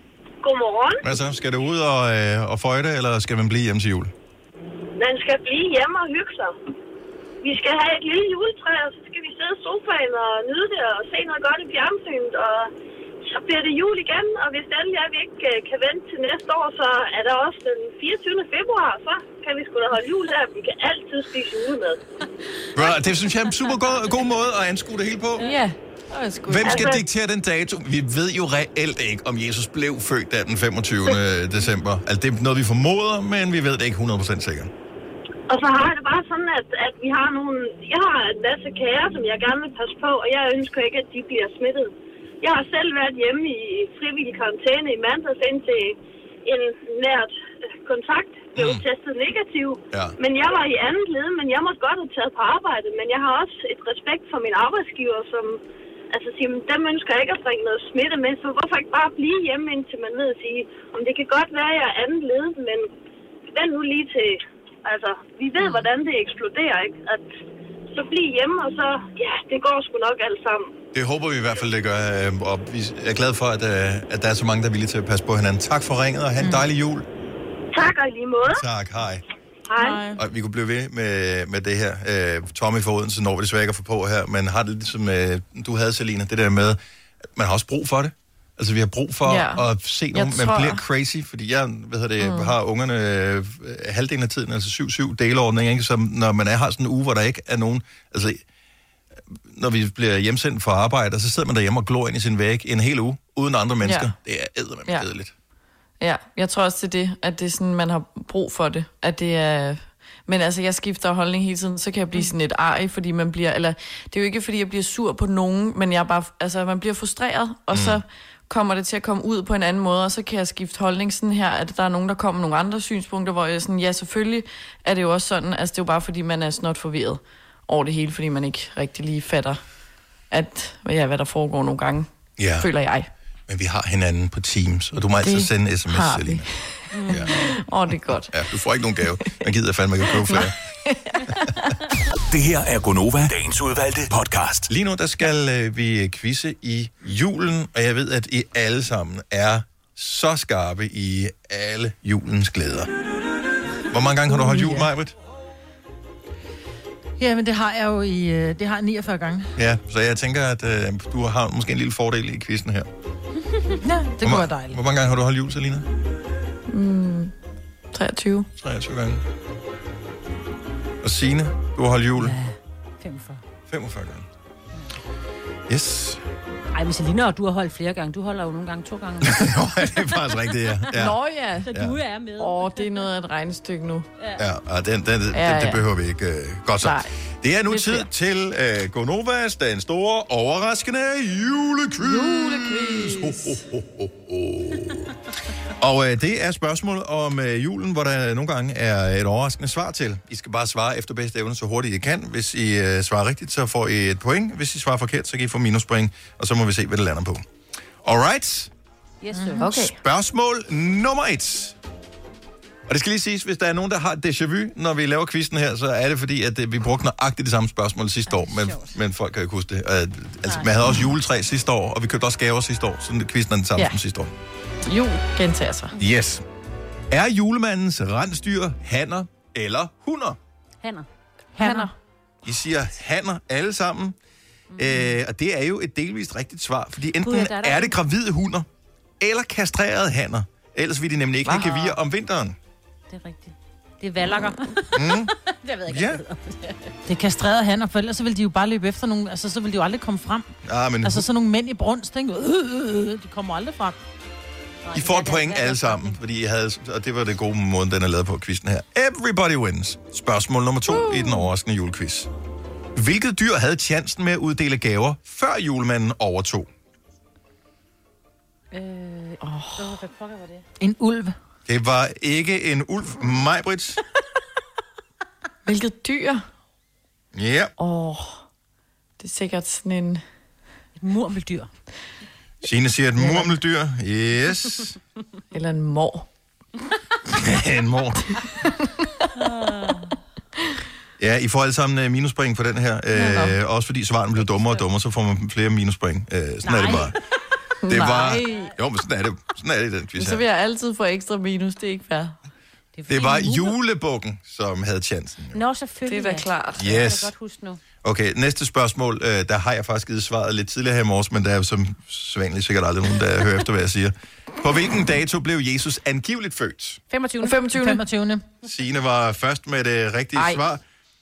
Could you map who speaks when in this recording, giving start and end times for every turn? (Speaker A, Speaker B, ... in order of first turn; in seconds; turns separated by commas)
Speaker A: 0.4-1.0, Speaker B: 1.0-4.1, Speaker A: 5.0-6.6, Speaker A: 7.4-12.7, Speaker A: 13.2-22.0, Speaker B: 22.7-25.5, Speaker C: 25.4-26.9, Speaker B: 26.5-34.7, Speaker A: 26.6-27.0, Speaker A: 35.5-62.9, Speaker B: 48.5-48.8, Speaker B: 49.9-50.2, Speaker A: 63.5-67.3, Speaker A: 67.9-70.7, Speaker B: 70.9-77.0, Speaker D: 76.4-76.6, Speaker A: 77.7-78.6, Speaker B: 78.5-79.2, Speaker A: 79.7-80.1, Speaker C: 79.8-80.1, Speaker B: 80.1-86.8, Speaker B: 87.3-98.4, Speaker C: 89.2-90.8, Speaker C: 92.2-92.5, Speaker B: 99.5-105.3, Speaker C: 103.8-104.1, Speaker C: 106.0-129.6, Speaker B: 117.7-118.0, Speaker C: 130.3-133.1, Speaker B: 132.4-132.7, Speaker B: 133.5-136.5, Speaker C: 135.2-138.4, Speaker E: 136.9-137.5, Speaker B: 137.1-137.4, Speaker B: 138.3-140.6, Speaker C: 140.1-141.7, Speaker F: 142.3-144.7, Speaker B: 144.7-152.9, Speaker B: 153.9-155.1, Speaker D: 154.3-154.9, Speaker D: 157.2-159.5, Speaker B: 159.6-162.9, Speaker D: 163.8-164.8, Speaker B: 164.2-165.9, Speaker C: 166.7-167.3, Speaker C: 167.9-168.5, Speaker B: 168.6-169.2, Speaker B: 171.0-172.3, Speaker E: 172.2-173.4, Speaker B: 173.7-174.2, Speaker B: 175.7-176.2, Speaker E: 176.7-180.1, Speaker B: 179.2-181.2, Speaker C: 180.9-181.7, Speaker E: 181.6-183.1, Speaker B: 181.7-182.0, Speaker C: 182.4-184.1, Speaker B: 184.4-195.1, Speaker C: 185.3-185.8, Speaker C: 186.8-187.1, Speaker C: 187.7-188.1, Speaker C: 192.0-193.6, Speaker B: 195.8-207.4, Speaker B: 208.0-208.7, Speaker E: 209.2-209.7, Speaker D: 209.3-209.7, Speaker C: 209.6-210.0, Speaker B: 209.7-211.8, Speaker B: 212.9-224.3, Speaker E: 218.3-218.9, Speaker C: 224.8-225.9, Speaker B: 226.0-226.4, Speaker B: 227.1-230.4, Speaker E: 230.8-231.1, Speaker D: 231.6-231.9, Speaker C: 231.6-231.9, Speaker B: 232.4-234.2, Speaker E: 234.7-235.0, Speaker B: 234.8-238.7, Speaker E: 237.2-237.9, Speaker B: 239.2-242.6, Speaker C: 241.4-242.0, Speaker E: 243.1-246.9, Speaker B: 244.9-245.3, Speaker B: 245.8-246.2, Speaker D: 247.1-250.5, Speaker B: 250.6-251.2, Speaker D: 251.0-254.0, Speaker E: 254.8-256.1, Speaker B: 254.9-262.3, Speaker C: 260.9-261.4, Speaker B: 262.9-266.7, Speaker E: 268.7-270.6, Speaker C: 269.4-270.0, Speaker D: 270.8-271.3, Speaker B: 271.6-274.0, Speaker C: 275.6-276.4, Speaker B: 277.3-277.7, Speaker C: 277.8-278.4, Speaker C: 279.2-280.2, Speaker E: 281.0-281.7, Speaker B: 282.6-285.0, Speaker C: 283.2-283.5, Speaker C: 285.5-286.3, Speaker B: 287.2-288.4, Speaker C: 288.6-289.1, Speaker E: 289.4-290.1, Speaker B: 291.2-297.1, Speaker C: 293.1-293.6, Speaker E: 294.4-294.8, Speaker E: 296.6-297.1, Speaker C: 297.8-298.7, Speaker B: 297.9-300.4, Speaker C: 300.2-302.4, Speaker E: 302.9-303.7, Speaker B: 303.1-305.6, Speaker E: 305.5-307.8, Speaker C: 306.1-306.9, Speaker B: 306.8-307.3, Speaker B: 308.0-317.0, Speaker E: 317.1-317.6, Speaker C: 317.4-318.0, Speaker D: 317.7-318.4, Speaker B: 318.6-320.8, Speaker C: 320.4-320.6